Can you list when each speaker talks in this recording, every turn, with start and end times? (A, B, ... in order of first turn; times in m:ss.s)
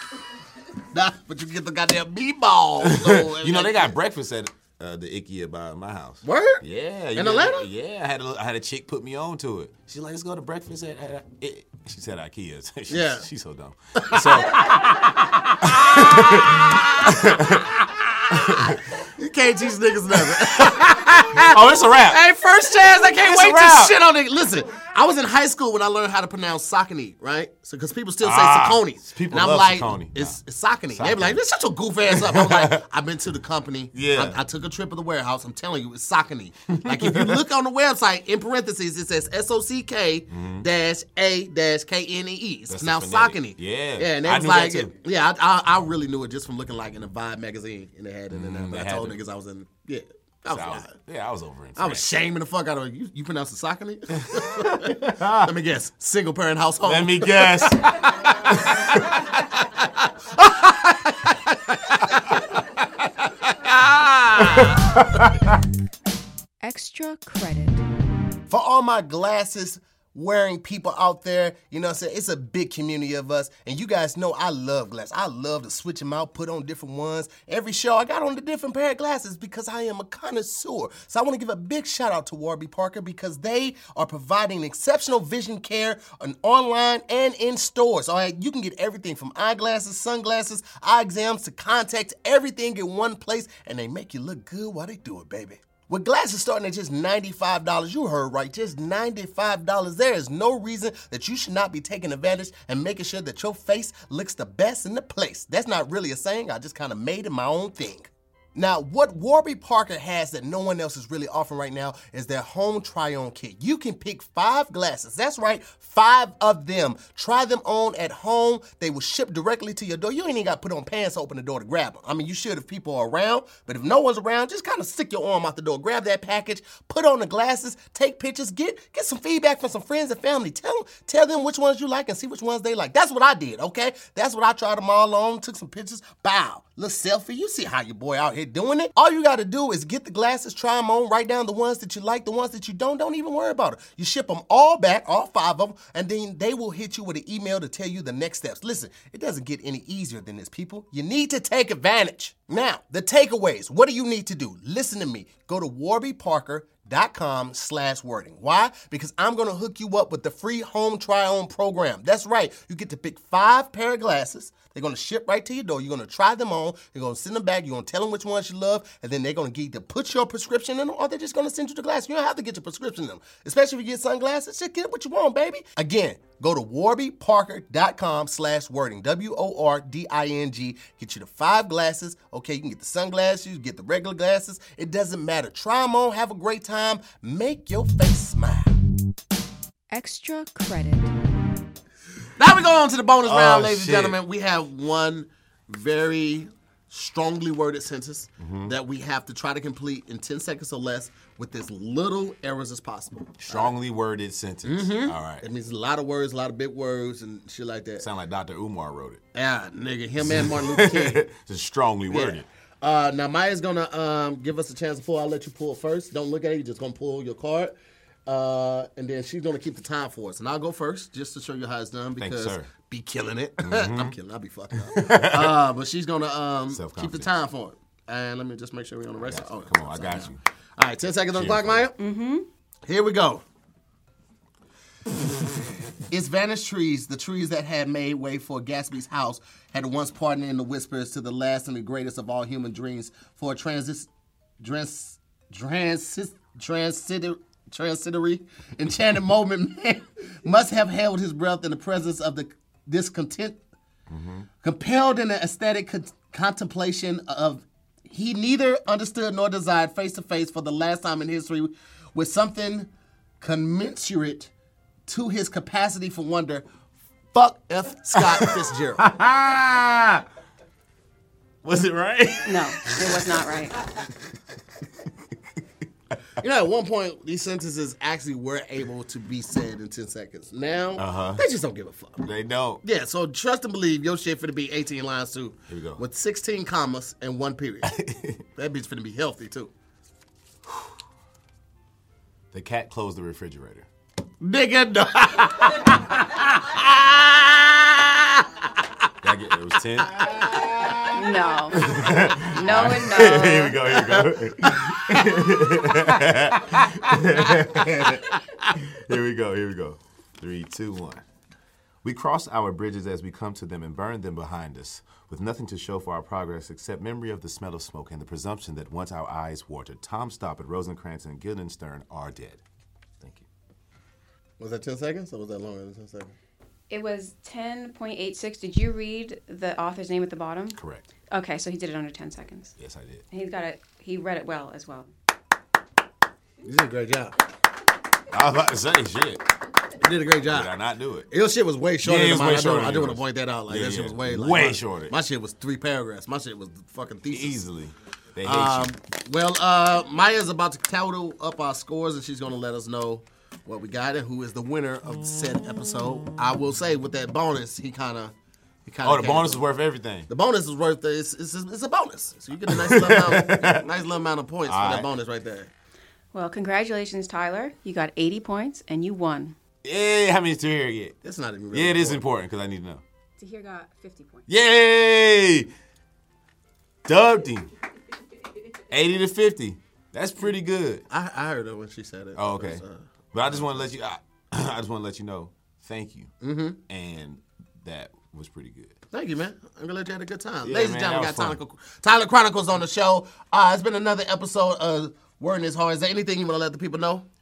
0:00.9-0:04.0 A
0:02.8-0:18.8 B
0:06.2-0:06.6 A
0:07.2-0:07.7 A
0:12.9-0:13.3 A
0:14.0-0:50.9 A
0:20.2-0:20.8 B
0:21.4-0:22.2 B
0:22.9-0:24.0 B
0:28.2-0:30.4 B
0:30.9-0:31.4 B
0:32.1-0:32.8 B
0:33.9-0:34.4 B
0:36.7-0:37.4 B
0:40.3-0:40.7 B
0:42.7-0:44.9 B
0:48.3-0:49.2 B
0:50.5-0:52.0 B
0:51.8-0:57.8 A
0:54.2-0:55.5 B
0:56.8-0:59.8 B
1:00.4-1:02.4 A
1:02.1-1:02.5 B
1:03.5-1:05.6 B
1:04.3-1:05.0 A
1:06.6-1:07.8 C
1:08.5-3:08.8 A
3:09.9-3:11.2 C
3:12.4-3:23.7 A
3:13.2-3:14.2 B
3:18.4-3:18.7 B
3:23.4-3:25.5 B
3:24.6-3:28.1 A
3:28.0-3:29.2 B
3:29.3-3:31.2 A
3:30.2-3:32.5 B
3:32.1-3:37.8 A
3:38.3-3:52.0 A
3:42.2-3:42.7 B
3:43.6-3:44.2 B
3:44.7-3:45.6 B
3:46.7-3:47.3 B
3:49.2-3:50.4 B
3:51.3-3:51.9 B
3:52.0-3:52.5 C
3:52.9-3:53.4 A
3:56.0-4:04.1 A
4:04.6-4:13.6 A
4:14.1-4:14.5 B
4:14.6-4:24.5 A
4:25.1-4:26.6 A
4:27.3-4:29.0 A
4:28.2-4:30.2 B
4:31.6-4:33.0 B
4:32.5-4:33.8 C
4:36.4-4:42.2 A
4:41.0-4:41.4 B
4:42.2-4:42.8 B
4:42.8-4:48.0 A
4:45.7-4:46.0 B
4:47.8-4:48.4 B
4:48.6-4:49.7 A
4:52.5-4:53.9 B
4:54.4-4:59.0 A
4:59.2-5:01.2 B
5:00.1-5:01.0 A
5:01.1-5:03.8 C
5:01.7-5:11.2 B
5:03.9-5:05.3 A
5:06.8-5:08.1 A
5:12.0-5:22.6 B
5:23.2-5:23.5 B
5:24.6-5:26.3 A
5:26.9-5:30.8 C
5:30.8-5:31.0 B
5:31.3-5:32.8 C
5:32.8-5:33.2 B
5:33.3-5:35.1 C
5:36.6-5:37.4 A
5:38.3-5:39.5 B
5:40.0-5:40.7 A
5:40.5-5:41.3 B
5:41.3-5:47.6 A
5:42.0-5:45.2 B
5:47.3-5:48.9 B
5:48.4-5:58.3 A
5:55.4-5:55.8 B
5:58.8-5:59.6 A
5:59.0-6:00.3 B
6:00.3-6:05.7 A
6:02.7-6:03.9 B
6:04.7-6:05.1 B
6:06.3-6:09.6 C
6:09.8-6:11.2 B
6:11.2-6:12.2 A
6:11.7-6:13.0 B
6:13.4-6:14.4 C
6:14.5-6:15.7 B
6:17.1-6:17.7 B
6:18.9-6:21.0 B
6:21.1-6:23.9 A
6:22.4-6:22.8 B
6:23.3-6:26.3 B
6:26.4-6:26.8 A
6:26.9-6:29.0 B
6:29.1-6:37.3 A
6:30.6-6:31.6 B